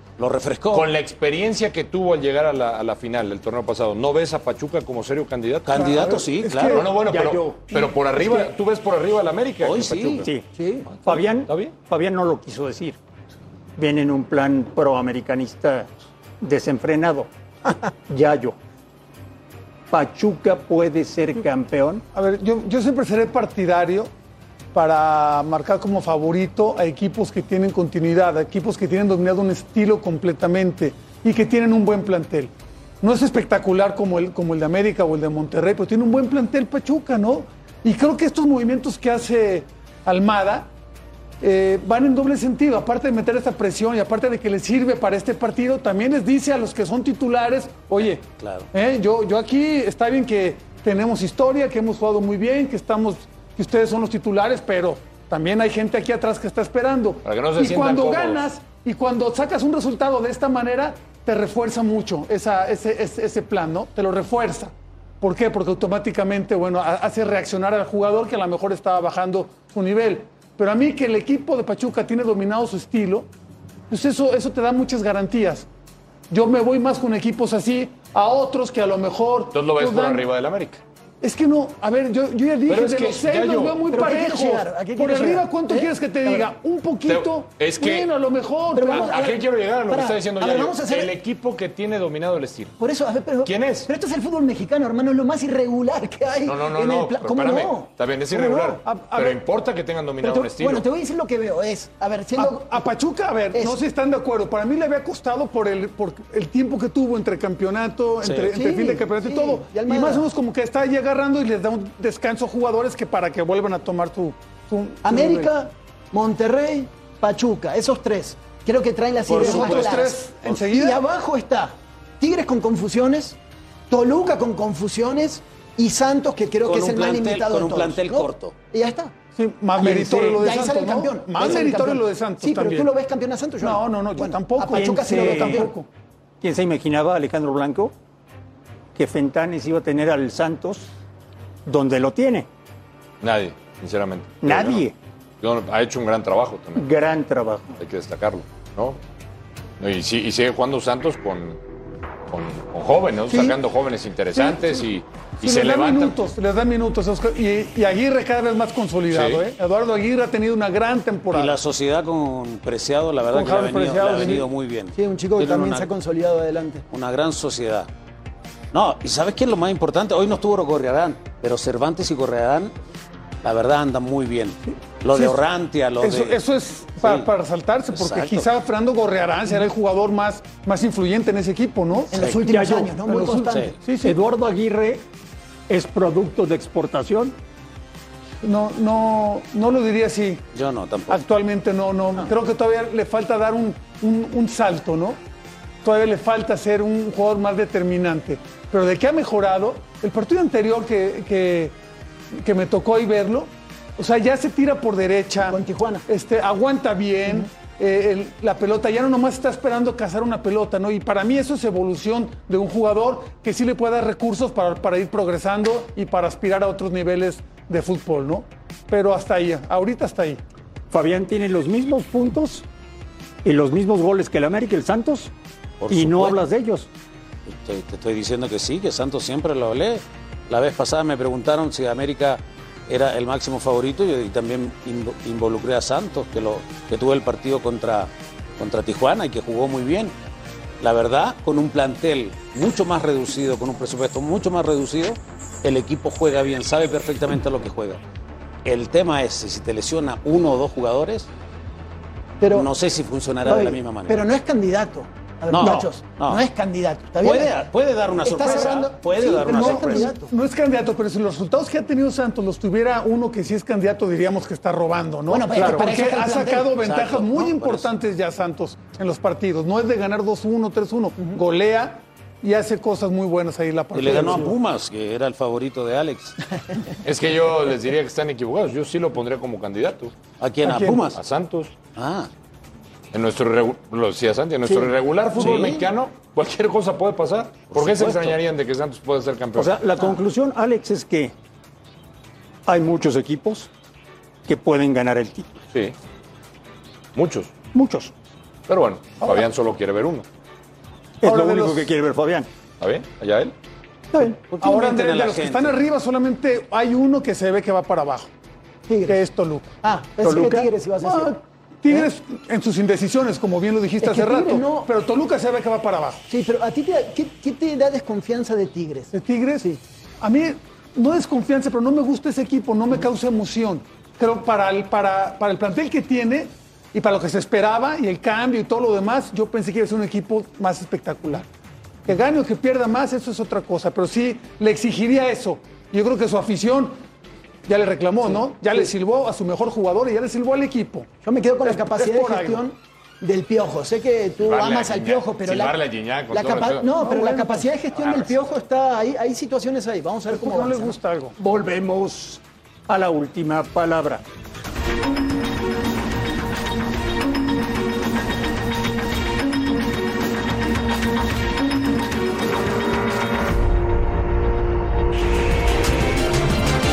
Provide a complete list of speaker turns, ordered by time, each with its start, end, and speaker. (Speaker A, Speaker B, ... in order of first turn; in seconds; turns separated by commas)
Speaker A: 0.2-0.9, Speaker B: 0.7-5.9, Speaker A: 5.7-6.8, Speaker C: 5.7-6.9, Speaker B: 6.7-10.3, Speaker D: 7.0-8.5, Speaker A: 9.6-10.3, Speaker E: 10.6-10.8, Speaker B: 10.9-11.7, Speaker D: 11.0-13.0, Speaker D: 13.8-17.3, Speaker D: 18.1-18.6, Speaker D: 19.9-22.0, Speaker C: 22.1-24.1, Speaker C: 24.7-40.7, Speaker C: 41.4-73.3, Speaker A: 48.4-48.7, Speaker B: 57.2-58.4, Speaker C: 73.9-75.7, Speaker C: 76.3-80.3, Speaker B: 79.5-80.8, Speaker C: 81.2-89.2, Speaker B: 82.7-83.8, Speaker E: 83.9-86.5, Speaker B: 87.0-88.1, Speaker E: 88.7-91.1, Speaker B: 88.9-92.7, Speaker E: 92.8-98.8, Speaker B: 93.4-93.9, Speaker B: 96.5-100.8, Speaker C: 98.8-99.4, Speaker E: 100.2-102.8, Speaker C: 102.4-115.5, Speaker E: 103.5-103.8, Speaker A: 108.2-108.6, Speaker E: 108.5-110.3, Speaker E: 115.0-123.4, Speaker A: 119.3-120.5, Speaker C: 119.3-121.0, Speaker E: 123.9-129.1, Speaker A: 126.6-128.5, Speaker C: 129.3-132.9, Speaker E: 129.7-135.8, Speaker C: 133.6-135.9, Speaker D: 134.7-135.7, Speaker D: 136.4-137.9, Speaker D: 138.9-140.9, Speaker D: 141.7-142.5, Speaker B: 143.2-144.8, Speaker D: 144.4-144.9, Speaker B: 145.4-146.9, Speaker D: 146.8-147.8, Speaker B: 147.8-149.0, Speaker B: 149.8-151.6, Speaker B: 152.3-156.2, Speaker C: 154.3-154.8, Speaker C: 155.4-161.6, Speaker B: 159.1-159.4, Speaker A: 161.3-165.9, Speaker C: 163.2-164.5, Speaker E: 164.9-166.8, Speaker A: 166.9-167.9, Speaker A: 168.7-172.7, Speaker A: 173.4-176.4, Speaker C: 176.0-182.1, Speaker A: 177.0-177.3, Speaker A: 177.9-178.4, Speaker E: 182.1-183.8, Speaker D: 182.4-185.0, Speaker C: 183.8-184.2, Speaker D: 185.7-187.3, Speaker C: 188.4-190.4, Speaker A: 190.5-191.2, Speaker C: 191.1-195.2, Speaker C: 195.8-201.7, Speaker C: 202.3-220.4, Speaker E: 205.4-206.1, Speaker D: 220.9-222.7, Speaker D: 223.4-225.3, Speaker A: 225.8-226.4, Speaker D: 225.9-226.9, Speaker A: 227.5-240.1, Speaker A: 240.8-248.0, Speaker A: 248.6-251.3, Speaker E: 252.4-252.7, Speaker A: 252.5-254.2, Speaker E: 253.4-257.6, Speaker A: 255.5-256.4, Speaker D: 255.6-255.9, Speaker A: 257.2-260.1, Speaker E: 258.2-260.3, Speaker C: 258.4-274.6, Speaker E: 265.3-266.8, Speaker A: 266.8-267.9, Speaker A: 273.9-276.4, Speaker B: 277.0-280.1, Speaker A: 280.4-281.2, Speaker C: 280.6-281.1, Speaker B: 281.1-281.7, Speaker A: 281.9-282.3, Speaker B: 283.1-289.8, Speaker A: 285.4-285.8, Speaker A: 287.7-288.4, Speaker D: 289.5-291.3, Speaker D: 292.7-293.7, Speaker D: 294.4-295.5, Speaker B: 297.1-297.5, Speaker D: 297.7-298.1, Speaker B: 298.7-300.2, Speaker D: 301.2-302.5, Speaker C: 301.2-301.9, Speaker B: 302.8-303.5, Speaker A: 304.5-305.7, Speaker C: 304.6-308.3, Speaker E: 308.9-309.3, Speaker C: 309.1-309.7, Speaker E: 309.8-311.4, Speaker D: 310.2-310.7, Speaker C: 311.0-316.2, Speaker E: 314.0-314.9, Speaker E: 316.3-319.8, Speaker C: 319.1-319.7, Speaker C: 320.2-331.5, Speaker C: 332.1-337.0, Speaker C: 337.6-341.1, Speaker E: 341.2-351.0, Speaker C: 341.6-342.6, Speaker B: 344.4-346.9, Speaker C: 347.0-347.5, Speaker B: 348.0-348.3, Speaker C: 350.3-351.4, Speaker D: 351.4-354.2